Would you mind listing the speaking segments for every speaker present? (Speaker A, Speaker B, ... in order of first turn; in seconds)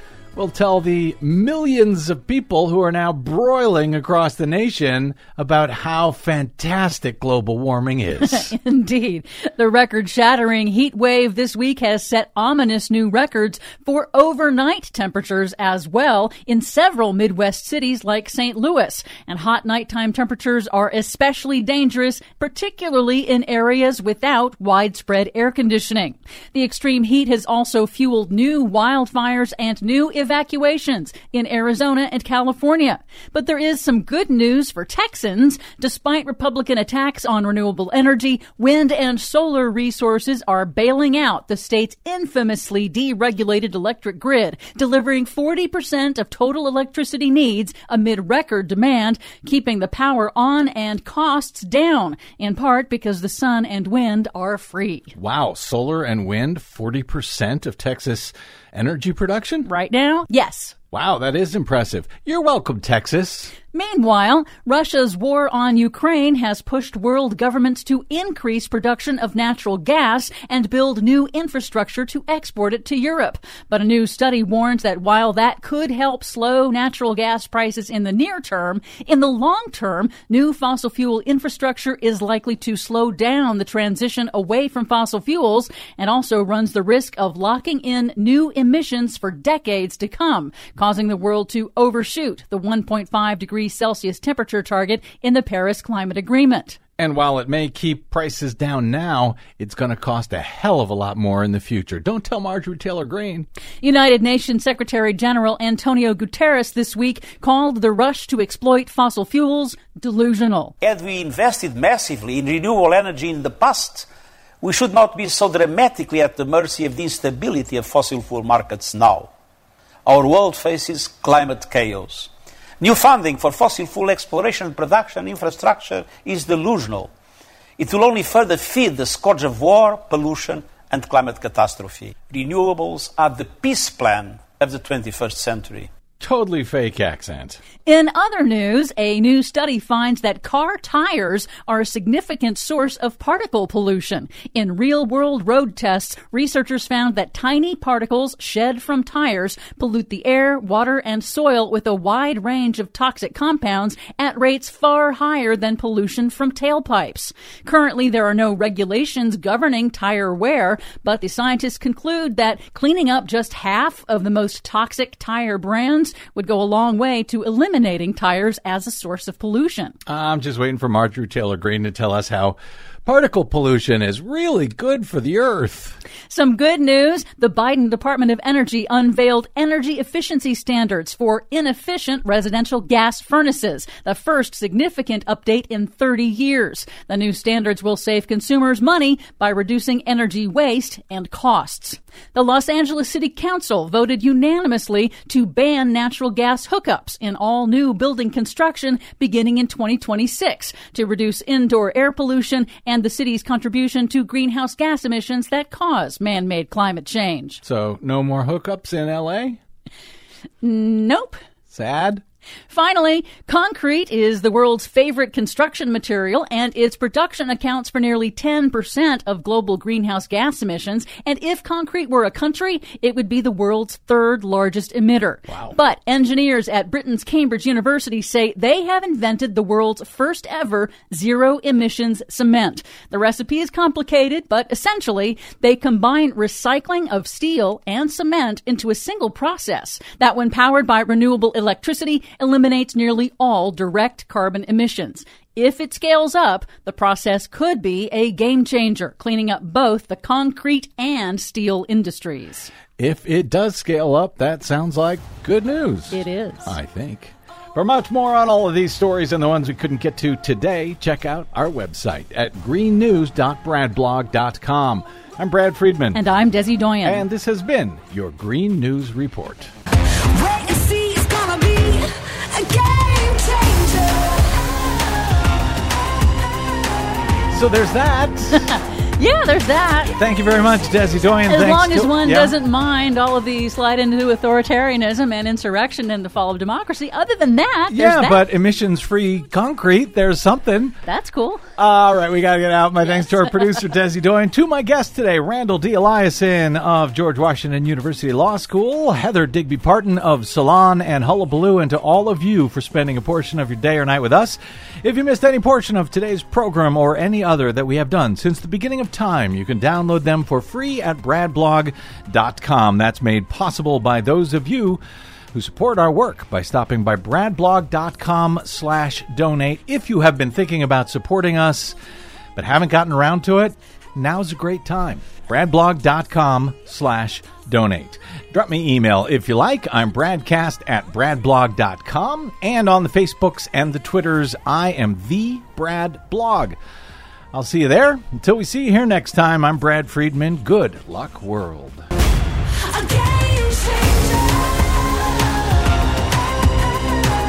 Speaker A: 0.3-8.5, 55.1-59.7, 60.9-63.5, 97.0-103.5, 136.2-137.6, 170.1-176.0, 207.6-209.6, 211.7-212.2, 225.5-225.8, 253.0-266.2, 267.0-269.7, 277.5-278.7, 280.1-282.5, 287.9-291.0, 291.8-315.0, 315.5-321.9, 322.6-336.8, 337.5-342.1
Speaker B: 8.2-55.1, 59.6-60.8, 63.7-96.8, 103.8-110.7, 137.8-169.9, 176.3-207.6, 210.6-211.4, 212.7-252.7, 256.1-256.8, 266.1-267.2, 270.3-274.5, 278.5-280.1, 281.5-288.4, 291.0-291.6, 343.0-344.0
Speaker C: 110.8-114.1, 114.6-119.3, 120.0-127.1, 127.8-135.9